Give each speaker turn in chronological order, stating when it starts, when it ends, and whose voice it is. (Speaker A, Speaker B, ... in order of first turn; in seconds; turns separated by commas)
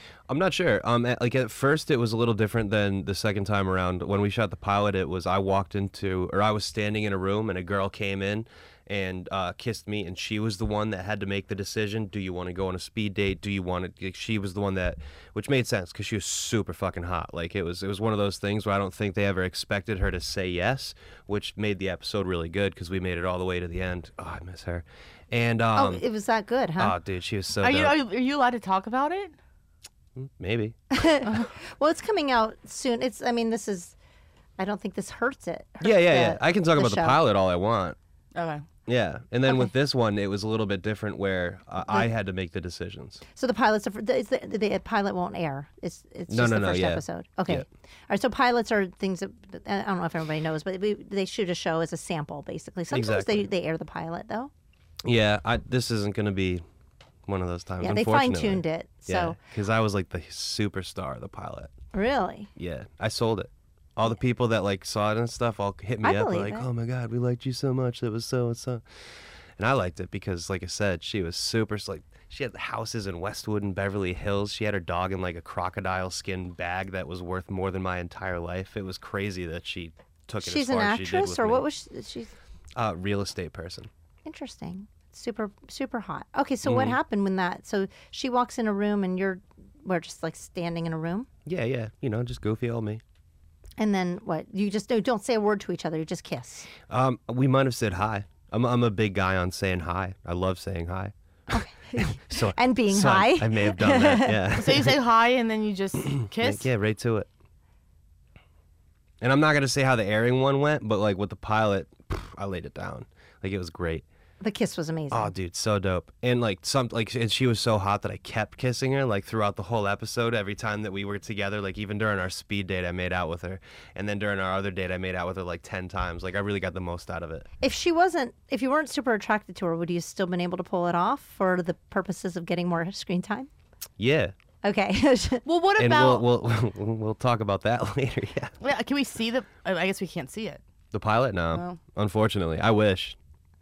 Speaker A: 0.3-26.0, Speaker B: 25.7-26.9, Speaker A: 26.8-28.0, Speaker C: 27.6-29.3, Speaker A: 30.1-30.8, Speaker B: 30.9-33.9, Speaker B: 34.6-37.2, Speaker A: 35.8-38.0, Speaker C: 38.3-38.6, Speaker A: 38.9-43.2, Speaker B: 43.3-54.5, Speaker A: 46.3-47.6, Speaker A: 52.9-53.5, Speaker A: 55.0-56.6, Speaker A: 57.3-61.7, Speaker B: 57.8-59.4, Speaker B: 61.9-62.5, Speaker A: 62.5-68.8, Speaker B: 66.0-66.7, Speaker A: 69.6-81.7, Speaker B: 80.4-82.3, Speaker A: 82.8-83.9, Speaker B: 84.2-91.3, Speaker A: 86.6-87.0, Speaker A: 91.5-93.0, Speaker B: 93.8-96.7, Speaker A: 96.9-101.1, Speaker B: 101.5-104.5, Speaker A: 102.0-105.0, Speaker C: 104.5-106.7, Speaker A: 106.2-107.3, Speaker A: 109.2-114.0, Speaker B: 114.4-115.3, Speaker A: 115.1-127.5, Speaker B: 127.6-133.5, Speaker A: 134.0-134.3, Speaker B: 134.6-135.4, Speaker C: 135.4-136.2, Speaker A: 135.8-138.6, Speaker C: 138.6-140.6, Speaker A: 140.9-143.2, Speaker C: 141.5-141.8